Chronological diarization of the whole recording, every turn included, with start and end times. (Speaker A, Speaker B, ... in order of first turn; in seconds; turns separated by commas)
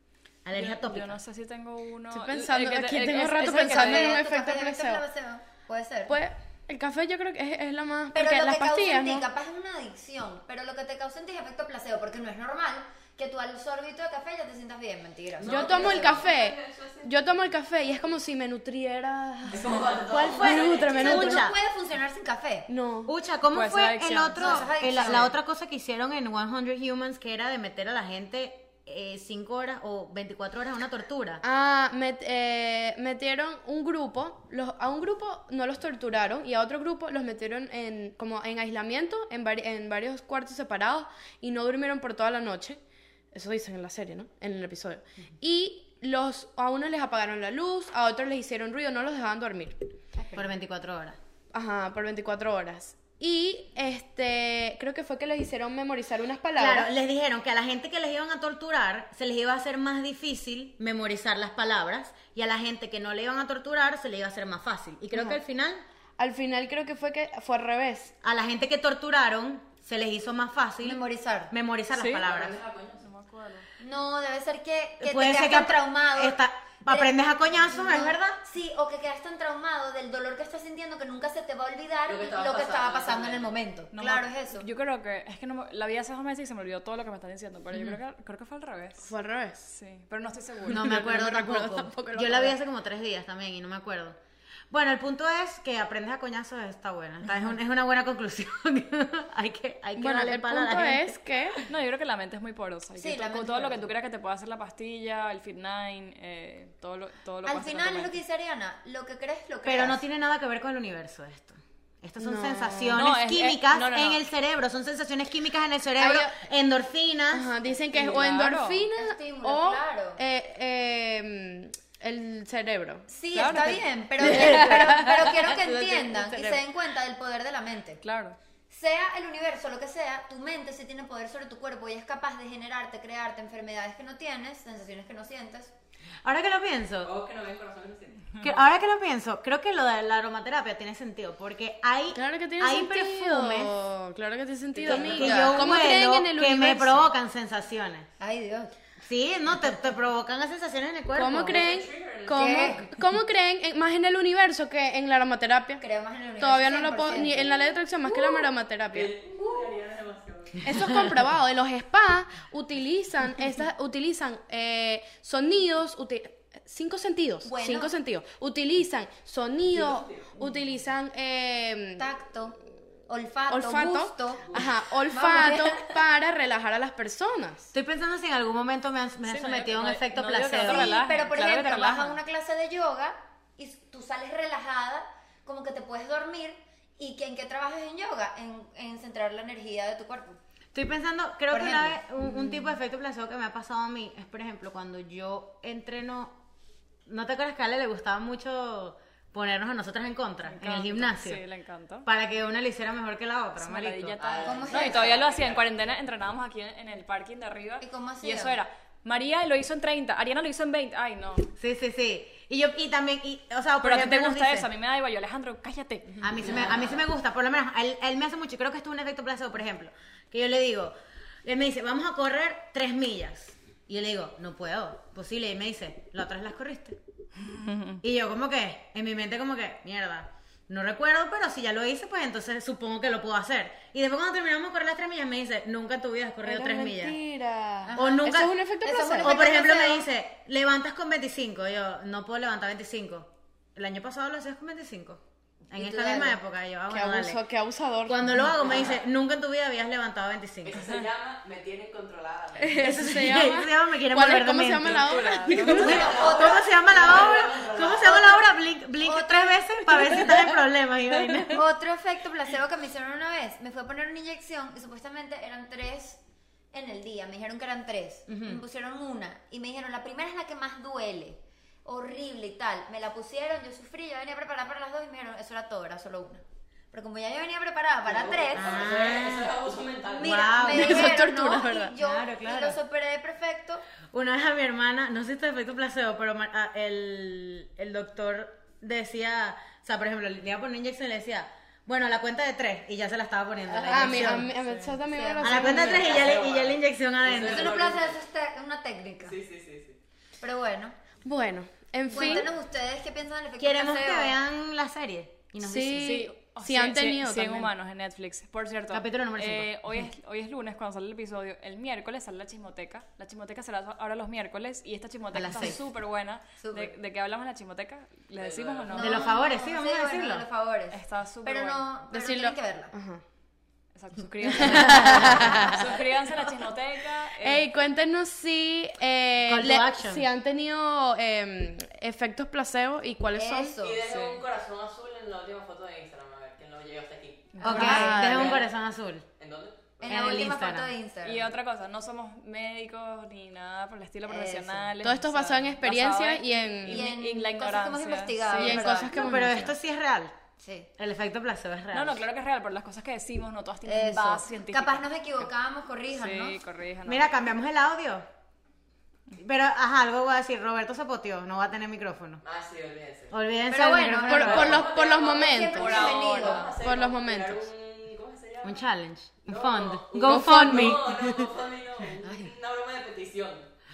Speaker A: 0.4-1.2, Speaker B: 0.5-4.2, Speaker C: 2.1-5.0, Speaker D: 3.5-6.2, Speaker C: 6.1-9.2, Speaker D: 8.1-16.3, Speaker E: 15.4-17.3, Speaker C: 15.4-21.5, Speaker E: 19.5-21.1, Speaker A: 20.1-21.6, Speaker D: 20.9-22.7, Speaker C: 22.7-23.1, Speaker A: 23.1-31.4, Speaker B: 23.5-24.9, Speaker D: 24.4-25.3, Speaker C: 31.4-42.8, Speaker C: 43.3-49.8, Speaker D: 50.2-50.4, Speaker A: 50.3-51.2, Speaker C: 51.5-56.9, Speaker A: 56.5-65.8, Speaker C: 65.1-65.4, Speaker C: 66.2-68.1, Speaker A: 68.2-72.5, Speaker D: 70.8-71.5, Speaker B: 71.9-72.2, Speaker E: 72.2-73.1, Speaker B: 73.0-73.7, Speaker D: 73.8-84.7, Speaker A: 75.0-78.4, Speaker E: 82.1-83.5, Speaker B: 83.9-89.1, Speaker C: 89.0-89.7, Speaker B: 89.7-91.2, Speaker C: 90.7-92.5, Speaker A: 90.7-94.2, Speaker A: 94.7-101.6, Speaker C: 100.0-101.6, Speaker B: 101.6-108.2, Speaker D: 103.0-103.8, Speaker D: 107.4-110.0, Speaker A: 109.6-117.5, Speaker C: 112.2-113.0, Speaker B: 112.8-114.2, Speaker C: 116.0-116.3, Speaker C: 117.3-126.6, Speaker B: 117.9-118.8, Speaker D: 118.9-120.2, Speaker D: 123.1-128.0, Speaker B: 123.3-125.5, Speaker B: 128.0-128.4, Speaker D: 128.7-135.7, Speaker A: 136.2-137.1, Speaker E: 137.0-138.5, Speaker A: 138.4-143.8, Speaker C: 142.1-147.1, Speaker D: 144.8-145.7, Speaker A: 144.8-148.1, Speaker D: 148.2-148.7, Speaker A: 149.0-151.7, Speaker C: 151.1-155.8, Speaker E: 151.4-152.9, Speaker D: 152.3-152.8, Speaker D: 155.8-157.6, Speaker C: 156.4-159.1, Speaker E: 158.9-161.1, Speaker C: 160.6-172.0, Speaker D: 167.4-167.9, Speaker E: 169.7-170.3, Speaker D: 172.0-172.6, Speaker D: 173.1-176.0, Speaker C: 173.5-177.7, Speaker E: 174.4-174.7, Speaker A: 177.7-181.0, Speaker B: 179.2-182.2, Speaker D: 180.6-190.4, Speaker A: 190.7-196.4, Speaker D: 191.5-192.0, Speaker A: 197.1-201.4, Speaker B: 200.5-202.1, Speaker A: 202.0-204.2, Speaker B: 203.6-211.5, Speaker E: 204.1-205.6, Speaker D: 204.4-205.2, Speaker D: 207.8-208.6, Speaker A: 211.5-214.7, Speaker B: 213.8-216.2, Speaker A: 216.2-227.0, Speaker E: 216.4-217.0, Speaker B: 227.4-228.0, Speaker A: 228.0-237.2, Speaker C: 236.4-239.4, Speaker D: 237.8-240.1, Speaker A: 237.9-238.6, Speaker A: 239.2-247.4, Speaker D: 245.7-246.4, Speaker C: 246.9-248.3, Speaker A: 248.0-250.8, Speaker E: 250.6-253.3, Speaker C: 252.6-256.1, Speaker A: 252.8-261.6, Speaker E: 254.8-258.3, Speaker B: 255.4-255.7, Speaker D: 255.7-258.4, Speaker D: 259.0-260.2, Speaker D: 261.5-266.2, Speaker D: 266.7-278.9, Speaker A: 268.3-268.6, Speaker E: 278.1-280.6, Speaker A: 278.6-279.5, Speaker D: 280.1-283.8, Speaker A: 280.2-281.3, Speaker C: 280.6-281.9, Speaker A: 282.0-282.8, Speaker A: 284.1-294.5, Speaker D: 293.7-294.5, Speaker C: 293.9-296.2, Speaker B: 294.5-294.9, Speaker D: 295.1-296.2, Speaker A: 295.4-297.8, Speaker E: 295.8-298.2, Speaker D: 297.3-299.4, Speaker E: 299.2-300.0, Speaker D: 300.4-300.9, Speaker C: 301.2-302.5, Speaker D: 302.1-304.4, Speaker A: 303.6-306.3, Speaker C: 305.6-307.7, Speaker B: 306.0-319.2, Speaker A: 308.9-310.1, Speaker A: 315.3-315.8, Speaker D: 316.6-316.9, Speaker E: 318.4-319.1, Speaker D: 318.9-322.9, Speaker A: 319.0-320.4, Speaker B: 320.9-321.8, Speaker C: 322.1-323.2, Speaker B: 323.9-327.7, Speaker C: 324.6-325.9, Speaker A: 324.7-325.7, Speaker C: 327.4-333.7, Speaker A: 329.4-330.2, Speaker D: 333.3-334.1, Speaker E: 333.8-338.7, Speaker B: 334.1-334.4, Speaker B: 337.5-338.0, Speaker A: 337.6-339.2, Speaker D: 337.6-338.2, Speaker C: 337.7-338.6, Speaker E: 339.4-340.0, Speaker D: 340.0-341.5, Speaker A: 340.0-340.9, Speaker B: 341.2-349.1, Speaker D: 344.2-344.9, Speaker C: 345.0-347.0, Speaker D: 346.9-349.4, Speaker C: 348.6-349.7, Speaker A: 349.1-350.3, Speaker D: 350.6-350.9, Speaker A: 351.0-352.2, Speaker B: 351.9-355.5, Speaker D: 353.9-356.6, Speaker B: 356.1-357.3, Speaker A: 357.1-358.2, Speaker A: 359.4-362.4, Speaker E: 362.4-363.3, Speaker A: 363.3-364.9, Speaker D: 363.7-366.7, Speaker C: 364.3-367.6, Speaker E: 364.3-368.8, Speaker A: 368.6-371.5, Speaker E: 369.4-373.7, Speaker C: 370.3-371.0, Speaker D: 372.2-372.5